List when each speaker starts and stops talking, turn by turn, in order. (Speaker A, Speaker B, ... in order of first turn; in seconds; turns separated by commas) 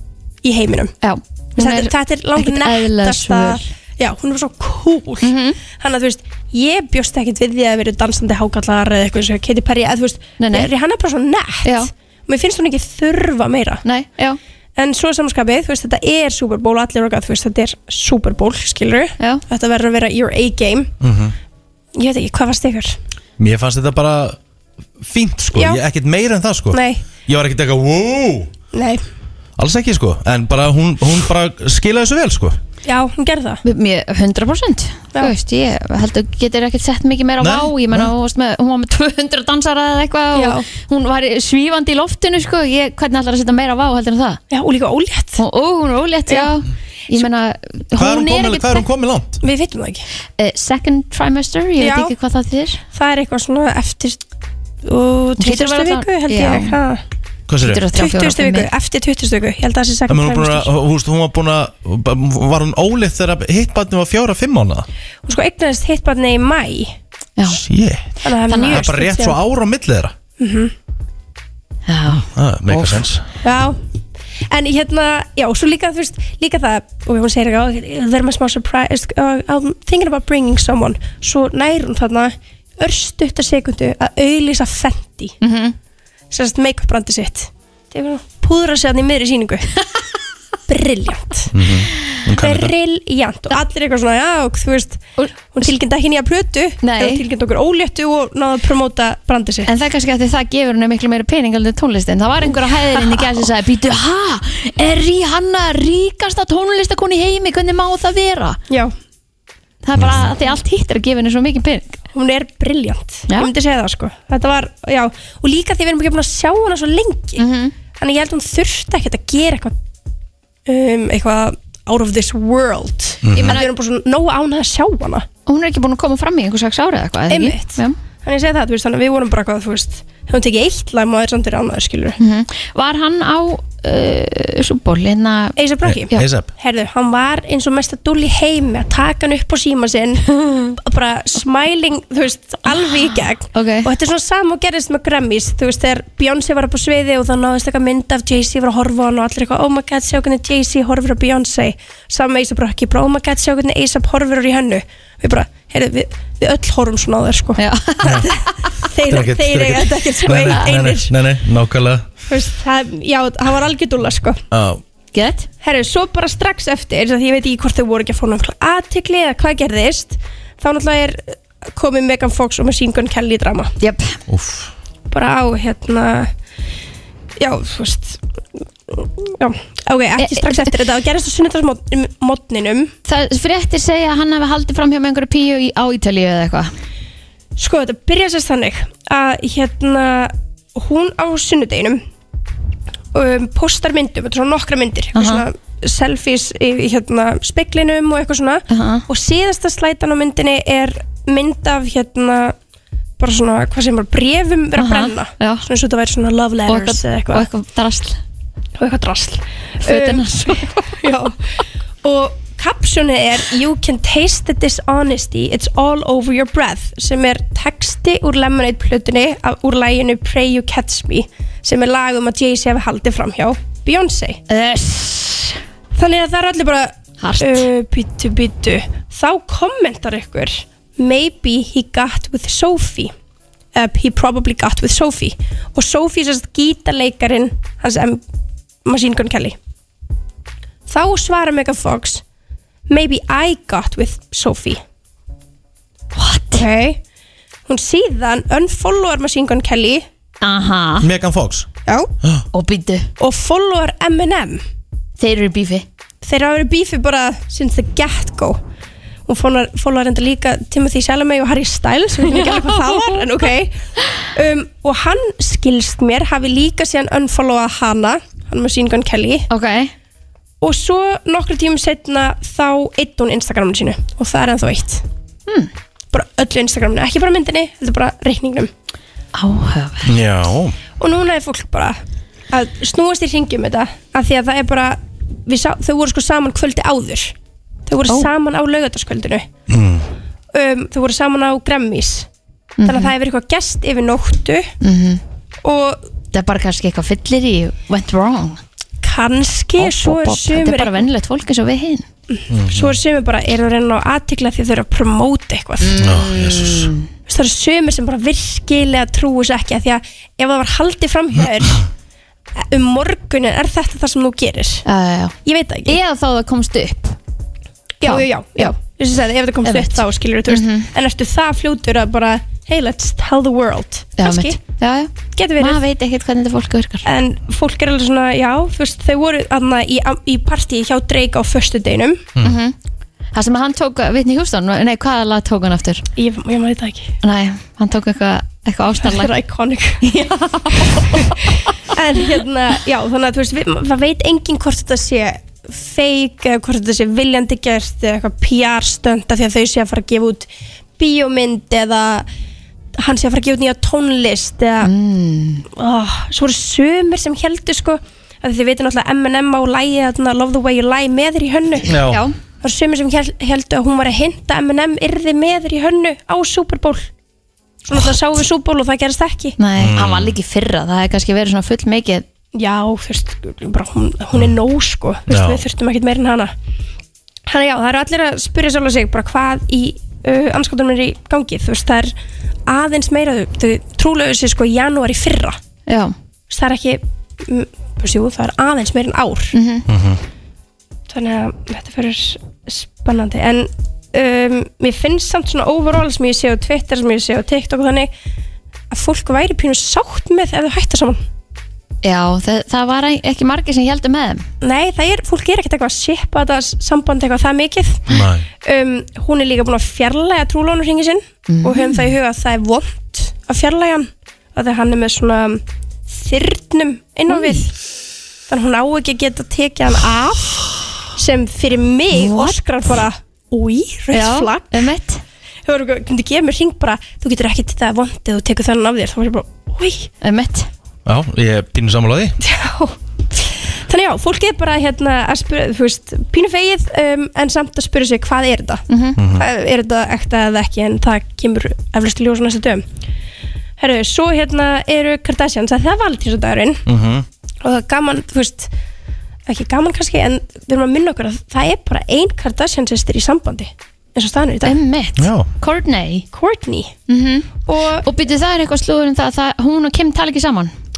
Speaker A: 0.4-0.9, Speaker B: 1.0-3.6, Speaker A: 1.6-13.8, Speaker B: 5.2-5.6, Speaker B: 10.4-10.7, Speaker B: 11.6-11.9, Speaker B: 13.8-14.4, Speaker A: 14.8-20.9, Speaker C: 21.0-21.3, Speaker A: 21.9-22.9, Speaker C: 23.4-24.4, Speaker C: 25.0-28.5, Speaker A: 25.5-25.8, Speaker A: 26.7-27.0, Speaker A: 28.7-29.0, Speaker C: 29.6-32.6, Speaker A: 32.8-33.6, Speaker B: 33.6-44.4, Speaker C: 37.4-38.1, Speaker A: 40.3-40.7, Speaker A: 44.5-45.4, Speaker B: 45.4-48.9, Speaker A: 46.3-46.6, Speaker C: 47.9-49.4, Speaker A: 49.4-50.0, Speaker B: 50.4-52.8, Speaker A: 51.8-52.1, Speaker A: 52.9-54.2, Speaker A: 54.8-57.0, Speaker B: 55.4-56.8, Speaker C: 57.5-57.8, Speaker B: 57.6-58.7, Speaker A: 57.9-60.7, Speaker C: 60.1-64.9, Speaker A: 65.2-66.9, Speaker B: 67.4-67.6, Speaker C: 67.5-68.1, Speaker A: 68.2-69.4, Speaker B: 68.5-68.9, Speaker C: 68.7-70.1, Speaker A: 70.4-70.7, Speaker B: 71.9-73.0, Speaker C: 72.1-73.2, Speaker A: 73.4-73.8, Speaker A: 74.5-85.3, Speaker B: 85.4-85.7, Speaker A: 86.3-89.7, Speaker A: 90.7-91.5, Speaker C: 91.5-92.7, Speaker A: 92.4-99.7, Speaker B: 96.8-97.2, Speaker B: 99.7-108.6, Speaker A: 102.5-103.4, Speaker B: 109.8-112.0, Speaker C: 110.0-110.3, Speaker A: 112.1-119.7, Speaker B: 117.4-117.7, Speaker A: 120.7-125.2, Speaker C: 123.2-123.6, Speaker B: 123.4-123.7, Speaker B: 125.5-128.0, Speaker A: 127.3-132.2, Speaker B: 132.2-135.6, Speaker A: 135.6-161.1, Speaker C: 135.9-136.5, Speaker B: 140.4-140.7, Speaker B: 143.5-143.9, Speaker B: 157.6-158.3, Speaker C: 159.1-162.1, Speaker B: 160.3-160.7, Speaker A: 162.3-164.4, Speaker C: 164.5-164.8, Speaker B: 165.1-165.5, Speaker A: 165.6-173.7, Speaker B: 173.8-174.1, Speaker C: 174.3-174.7, Speaker A: 175.1-176.3, Speaker A: 177.4-178.2, Speaker A: 178.9-182.9, Speaker B: 180.2-180.7, Speaker B: 183.1-186.7, Speaker A: 187.6-192.0, Speaker A: 193.1-202.5, Speaker B: 195.1-195.4, Speaker B: 198.7-199.1, Speaker A: 203.2-207.5, Speaker B: 204.8-205.6, Speaker B: 206.7-208.2, Speaker A: 208.8-211.3, Speaker B: 209.8-210.7, Speaker A: 212.0-224.4, Speaker B: 224.5-225.6, Speaker A: 225.9-233.1, Speaker B: 227.2-227.7, Speaker A: 233.7-238.2, Speaker A: 238.8-239.6, Speaker A: 240.9-242.2, Speaker A: 242.9-244.8, Speaker B: 246.1-246.7, Speaker A: 246.5-247.0, Speaker A: 247.7-250.0, Speaker B: 250.4-251.1, Speaker C: 251.0-251.7, Speaker A: 251.8-252.1, Speaker B: 252.5-253.1, Speaker A: 253.2-254.6, Speaker B: 255.2-255.8, Speaker A: 256.2-258.6, Speaker A: 259.3-269.5, Speaker B: 262.2-263.3, Speaker B: 269.5-269.9, Speaker A: 270.6-275.0, Speaker A: 276.1-278.7, Speaker B: 279.3-280.1, Speaker C: 280.0-280.8, Speaker A: 281.0-282.0, Speaker A: 282.5-287.3, Speaker A: 287.9-289.5, Speaker C: 289.7-290.1, Speaker A: 290.5-292.3, Speaker B: 292.8-293.1, Speaker A: 292.8-294.7, Speaker B: 294.8-295.2, Speaker A: 295.6-296.1, Speaker B: 296.3-298.6, Speaker A: 299.0-301.1, Speaker B: 299.8-302.0, Speaker A: 302.4-305.9, Speaker C: 302.5-302.9, Speaker B: 305.8-307.1, Speaker C: 306.0-306.9, Speaker A: 307.3-311.8, Speaker A: 312.7-314.9, Speaker B: 314.9-315.3, Speaker A: 315.4-316.0, Speaker B: 315.9-317.1, Speaker A: 318.0-324.6, Speaker B: 318.0-318.7, Speaker B: 319.6-320.9, Speaker B: 324.2-327.0, Speaker A: 325.3-325.8, Speaker A: 327.0-332.3, Speaker B: 332.4-332.7, Speaker B: 333.3-336.0, Speaker A: 336.2-337.1, Speaker B: 337.2-339.3, Speaker A: 339.0-341.4, Speaker B: 340.0-341.3, Speaker A: 341.9-352.3, Speaker A: 353.0-354.9, Speaker B: 354.8-355.6, Speaker A: 355.7-361.9, Speaker C: 361.9-362.2, Speaker B: 362.1-362.3, Speaker A: 362.6-367.1, Speaker A: 367.9-369.6, Speaker B: 369.6-372.2, Speaker C: 369.8-370.4, Speaker A: 372.5-376.5, Speaker C: 375.3-375.6, Speaker A: 377.5-382.1, Speaker A: 382.7-385.6, Speaker B: 385.9-386.1, Speaker A: 386.5-389.5, Speaker B: 389.5-389.9, Speaker C: 389.9-390.2, Speaker A: 391.1-398.1, Speaker A: 398.9-401.2, Speaker B: 402.0-404.4, Speaker A: 404.6-417.7, Speaker C: 408.1-408.4, Speaker B: 411.5-412.1, Speaker B: 417.3-417.6, Speaker A: 418.5-424.9, Speaker B: 422.1-422.6, Speaker B: 424.1-425.2, Speaker A: 425.6-430.1, Speaker B: 430.2-430.7, Speaker C: 431.0-432.4, Speaker A: 432.4-442.8, Speaker B: 438.9-439.2, Speaker C: 439.2-439.4, Speaker A: 443.8-446.8, Speaker C: 446.9-447.2, Speaker A: 447.6-448.7, Speaker A: 449.5-454.8, Speaker B: 454.6-456.2, Speaker C: 455.2-455.5, Speaker A: 456.3-456.9, Speaker B: 457.1-457.5, Speaker A: 457.6-458.1, Speaker B: 458.0-460.7